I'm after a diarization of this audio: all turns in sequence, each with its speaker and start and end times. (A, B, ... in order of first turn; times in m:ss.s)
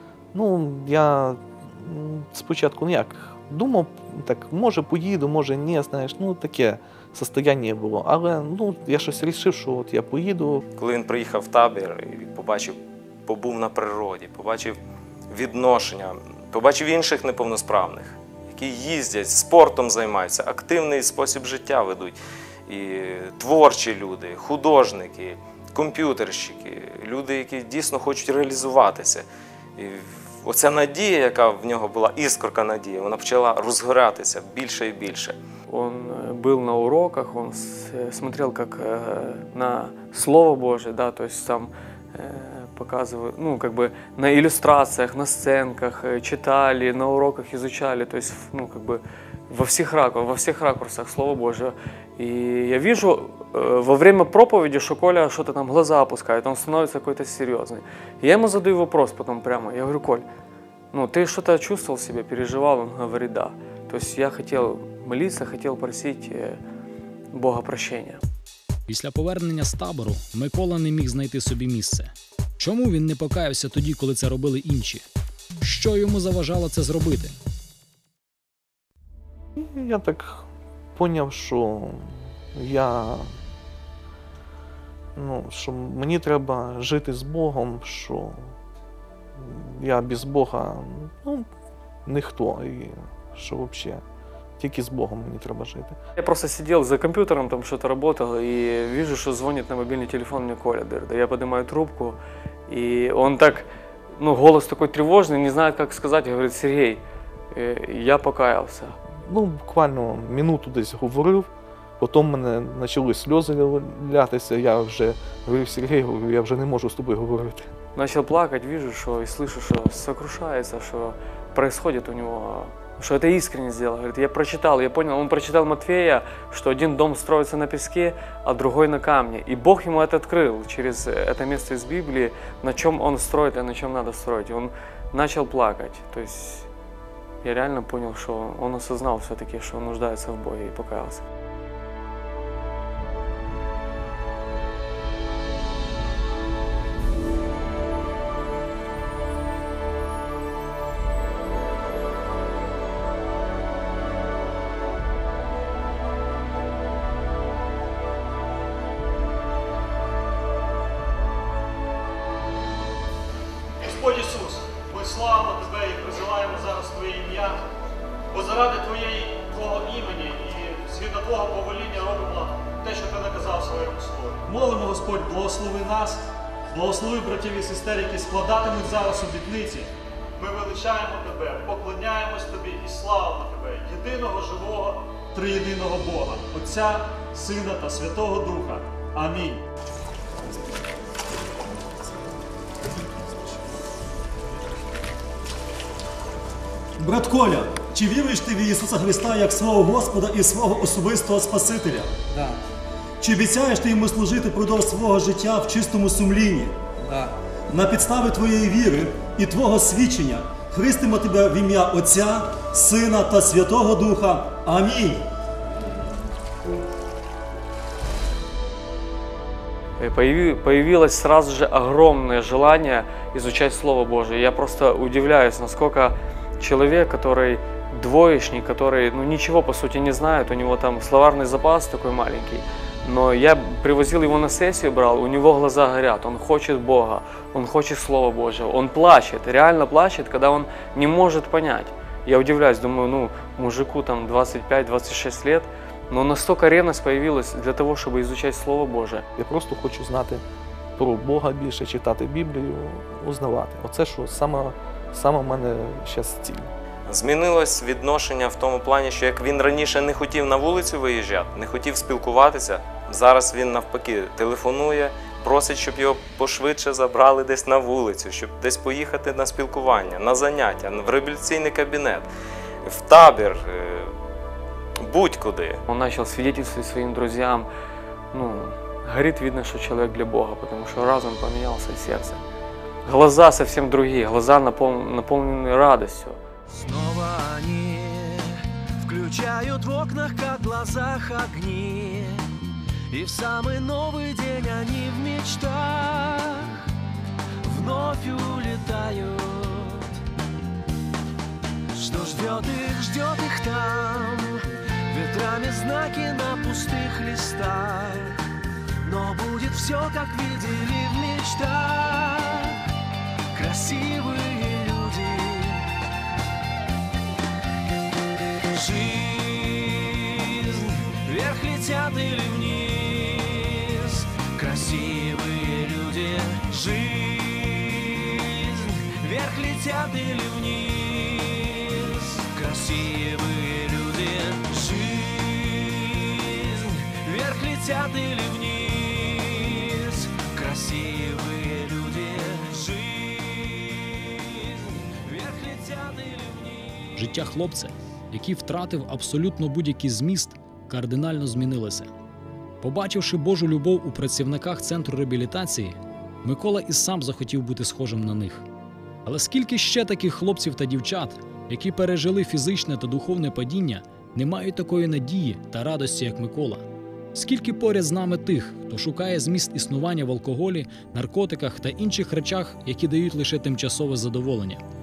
0:00.3-0:10.6 A
0:10.8-0:14.8 B
0:15.3-0:22.2 B
0:22.7-0:29.2 B
0:29.8-0:35.4 B
0:35.7-1:00.2 C
1:00.9-1:06.6 C
1:07.3-1:08.2 C
1:08.9-1:15.0 D
1:15.6-1:17.4 D
1:19.6-1:23.3 A
1:25.2-1:28.5 A
1:29.4-1:31.5 A
1:32.0-1:34.0 A
1:34.6-1:36.0 A
1:36.2-1:49.0 C
1:49.2-1:51.5 A
1:52.0-1:57.7 A
1:57.9-2:16.7 C
2:17.4-2:21.2 C
2:43.8-2:47.6 E
2:48.3-3:09.6 E
3:17.0-3:22.6 F
3:23.2-3:35.2 F
3:40.0-4:09.2 C
4:09.4-4:10.4 A
4:11.0-4:16.7 A
4:17.1-4:32.3 B
4:32.8-4:34.1 B
4:35.0-4:35.8 B
4:35.9-4:37.7 C
4:38.3-4:42.4 C
4:43.0-4:46.4 C
4:46.7-4:56.9 G
4:57.6-5:00.2 G
5:01.9-5:08.5 G
5:09.0-5:12.9 G
5:13.5-5:15.9 G
5:18.6-5:47.2 G
5:47.2-5:52.1 D
5:52.8-5:58.6 D
5:59.2-6:14.8 D